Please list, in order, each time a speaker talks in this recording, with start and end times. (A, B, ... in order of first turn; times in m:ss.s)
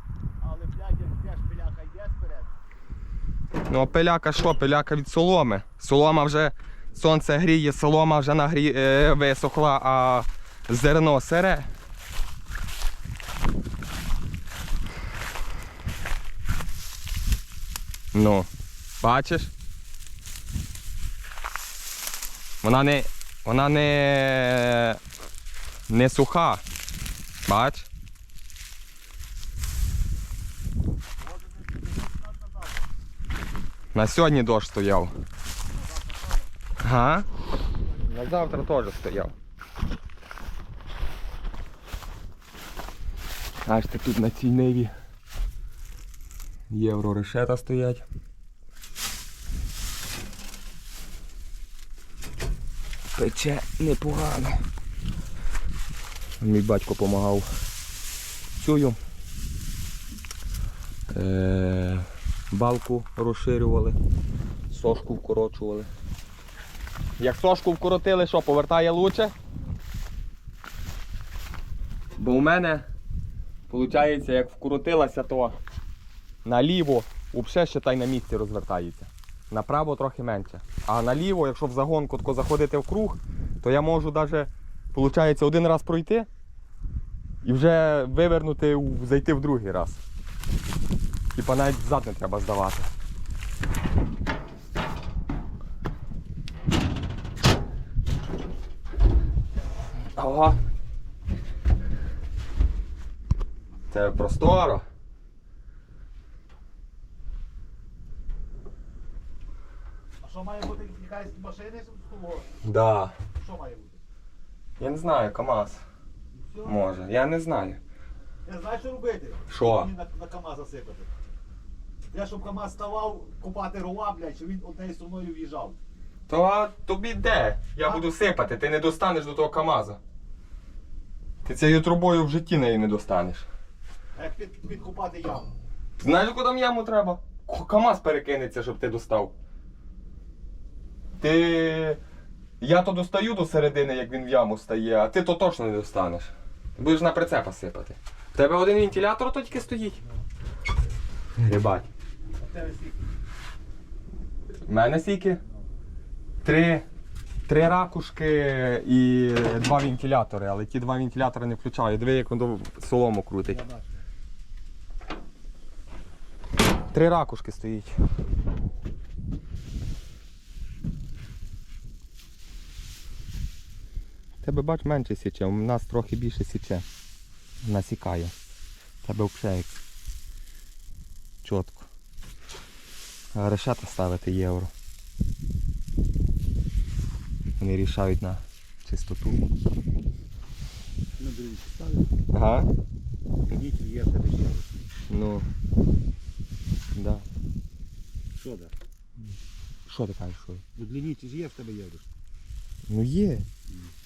0:00.4-0:02.6 A
0:03.7-0:11.7 B
0:18.1-0:18.5 B
0:19.0-0:19.5 B
0:22.6-0:25.0 B
0:25.9-0:26.6 B
0:27.4-0:27.9 B
0:31.2-0:32.9 A
0:33.9-0:35.1 B
0:35.7-0:36.5 A
0:36.8-0:37.2 B
0:38.0-0:39.3 B
0:43.6-0:44.9 B
0:46.7-0:48.0 B
0:53.1-0:54.6 B
0:56.4-0:57.5 B
0:58.6-0:59.0 B
1:01.1-1:04.0 B
1:04.7-1:05.9 B
1:07.2-1:09.3 B
1:12.2-1:12.8 B
1:13.7-1:15.6 B
1:16.4-1:26.3 B
1:27.4-1:30.0 B
1:31.3-1:32.9 B
1:40.2-1:40.6 B
1:43.9-1:44.8 B
1:50.2-1:52.5 A
1:52.6-1:53.2 B
1:53.3-1:54.0 A
1:54.8-1:55.8 B
1:56.5-1:56.7 A
1:56.6-1:57.8 B
1:58.4-2:01.1 A
1:59.5-1:59.9 B
2:02.1-2:05.8 A
2:06.3-2:10.0 B
2:11.4-2:13.4 B
2:14.2-2:15.5 A
2:16.0-2:19.3 B
2:21.2-2:22.0 B
2:22.6-2:30.0 B
2:31.4-2:31.9 B
2:32.4-2:33.0 A
2:34.7-2:35.4 B
2:36.4-2:36.8 B
2:37.4-2:43.6 B
2:43.5-2:43.9 A
2:46.9-2:48.0 B
2:54.4-2:56.8 B
2:57.6-2:58.3 B
2:59.0-2:59.8 B
3:01.4-3:01.8 B
3:03.3-3:04.7 B
3:07.6-3:09.4 B
3:11.2-3:12.1 A
3:12.3-3:12.7 B
3:13.5-3:14.7 A
3:15.1-3:15.5 B
3:16.9-3:17.2 B
3:18.3-3:18.7 A
3:19.9-3:20.6 B
3:20.8-3:22.1 A
3:22.9-3:23.5 B